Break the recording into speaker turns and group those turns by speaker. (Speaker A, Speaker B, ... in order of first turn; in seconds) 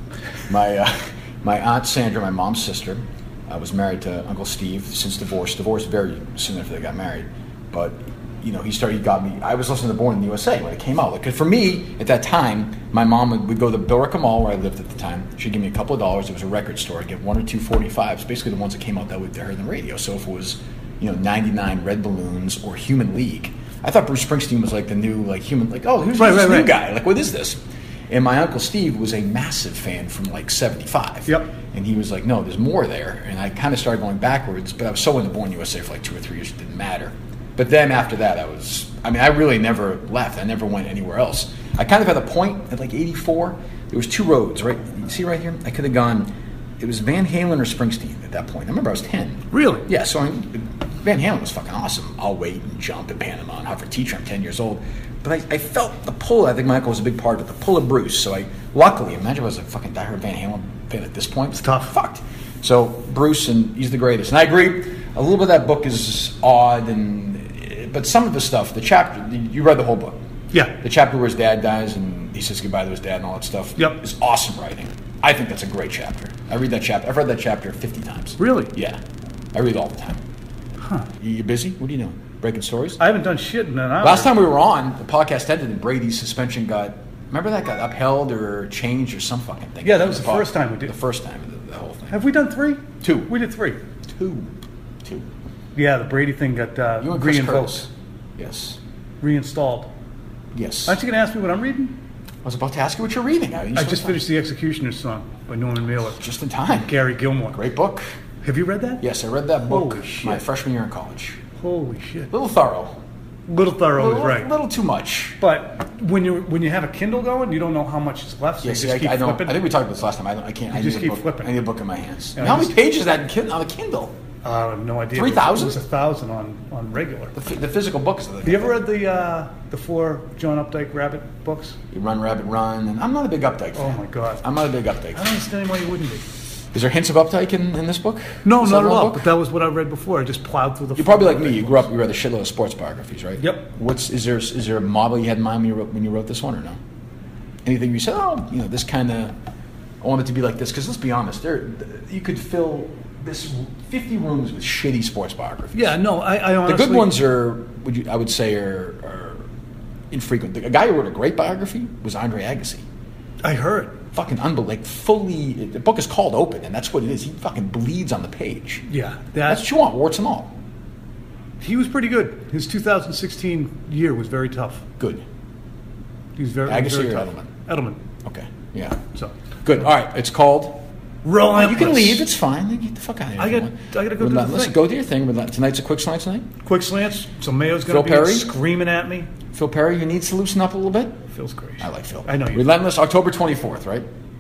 Speaker A: 0.5-79.0, 79.5-80.2, 81.1-83.0, 84.0-92.2, 93.0-93.3, 94.1-94.5, 95.0-95.3, 97.0-98.8, 100.5-101.0, 102.4-104.3, 106.2-107.0, 107.5-108.1, 109.0-111.4, 112.3-113.0, 113.9-115.4, 118.6-124.2, 125.1-125.8, 127.3-128.8, 131.9-135.3, 136.7-139.3, 140.9-146.8, 147.7-149.4, 150.0-156.0, 156.6-159.5, 160.1-162.8, 164.1-168.8, 169.5-170.6, 175.0-175.2, 176.7-177.5, 178.2-179.0, 179.7-180.8, 181.4-186.5, 187.9-188.5, 189.5-191.2, 191.8-194.1
Speaker B: 26.2-26.7, 49.5-49.9, 61.6-61.9, 78.4-78.7, 80.8-81.1, 83.0-84.4, 89.8-90.9, 92.1-93.8, 95.8-97.9, 99.2-99.9, 100.9-102.0, 103.8-106.2, 106.8-107.6, 108.4-109.0, 109.6-110.4, 111.6-112.3, 113.5-114.5, 115.4-119.6, 120.7-121.5, 122.4-122.8, 124.4-127.3, 128.4-131.8, 133.8-134.4, 135.1-136.2, 138.4-141.9, 143.4-143.7, 155.7-157.2, 163.4-164.0, 168.9-169.7, 171.6-174.9, 176.4-178.0, 181.2-182.3, 183.4-184.8, 186.6-189.3, 191.3-192.7